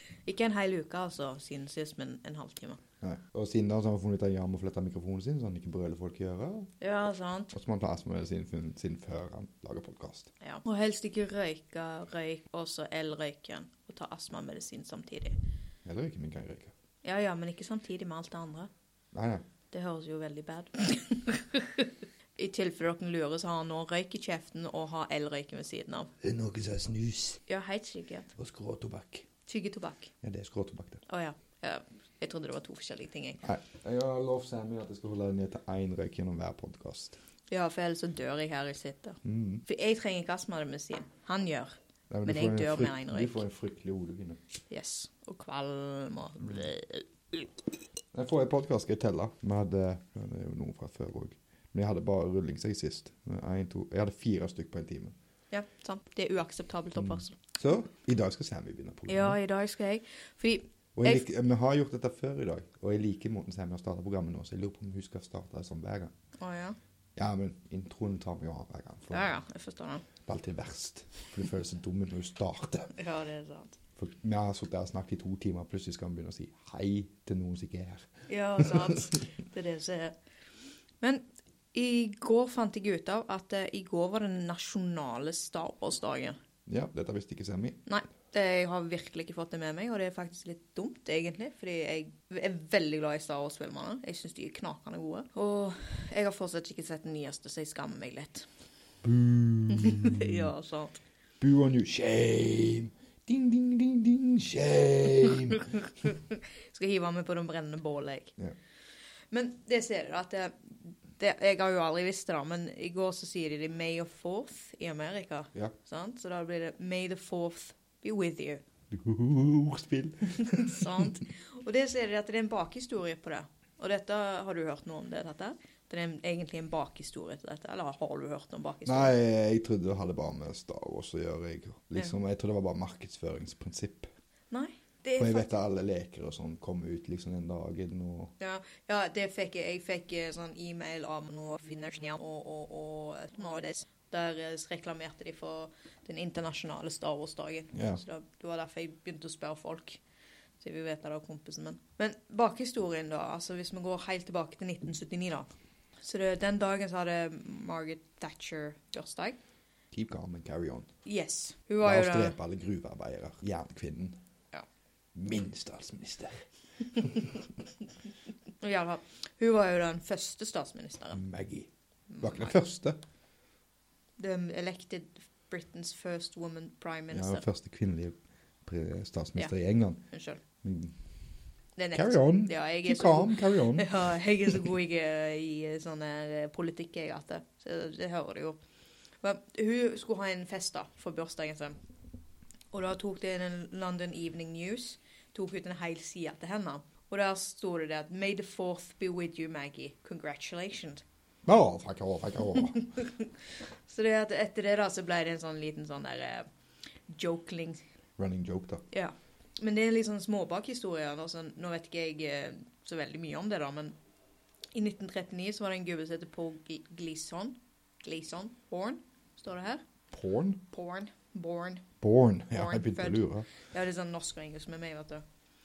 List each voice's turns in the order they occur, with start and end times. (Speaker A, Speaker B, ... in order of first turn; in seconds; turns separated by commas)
Speaker A: 0.2-2.8, Speaker B: 3.0-6.7, Speaker A: 6.8-7.5, Speaker B: 7.5-10.3, Speaker A: 10.4-15.4, Speaker B: 15.8-16.7, Speaker A: 17.0-18.7, Speaker B: 19.1-19.4, Speaker A: 19.7-26.1, Speaker B: 26.2-27.4, Speaker A: 27.5-28.3, Speaker B: 28.4-29.2, Speaker A: 29.5-30.1, Speaker B: 30.2-31.0, Speaker A: 31.1-33.4, Speaker B: 33.4-37.2, Speaker A: 37.5-43.4, Speaker B: 39.2-39.6, Speaker B: 42.1-44.4, Speaker A: 44.7-47.5, Speaker B: 48.1-55.1, Speaker A: 55.5-57.4, Speaker B: 57.0-59.4, Speaker A: 59.1-61.2, Speaker B: 61.0-66.1, Speaker A: 66.4-66.8, Speaker B: 67.2-69.3, Speaker A: 69.1-70.0, Speaker B: 70.2-72.9, Speaker A: 72.9-73.8, Speaker B: 74.0-79.0, Speaker A: 78.3-80.2, Speaker A: 81.7-86.4, Speaker B: 86.7-87.8, Speaker A: 87.8-98.5, Speaker B: 99.0-100.5, Speaker A: 99.7-101.0, Speaker B: 101.4-105.7, Speaker A: 105.6-108.3, Speaker A: 109.3-118.6, Speaker B: 118.9-121.1, Speaker A: 120.4-129.1, Speaker B: 128.8-134.1, Speaker A: 134.5-135.5, Speaker B: 135.2-138.3, Speaker A: 138.4-150.0, Speaker B: 147.7-148.0, Speaker A: 150.6-155.5, Speaker A: 156.0-159.4, Speaker B: 159.9-160.9, Speaker A: 161.0-162.3, Speaker B: 161.8-164.2, Speaker B: 165.1-167.4, Speaker A: 168.6-171.2, Speaker B: 171.1-173.0, Speaker A: 172.1-172.5, Speaker A: 174.2-177.4, Speaker B: 177.1-180.0, Speaker A: 180.1-180.4, Speaker B: 180.6-180.9, Speaker A: 181.8-188.6, Speaker B: 181.9-183.9, Speaker A: 189.2-191.8, Speaker A: 192.7-201.0, Speaker B: 201.4-202.8, Speaker A: 202.6-203.3, Speaker A: 203.9-206.4, Speaker A: 207.1-207.8, Speaker B: 208.2-208.8, Speaker A: 208.9-213.9, Speaker A: 214.7-219.8, Speaker B: 220.1-220.6, Speaker A: 220.7-221.8, Speaker B: 222.0-223.5, Speaker A: 222.5-225.2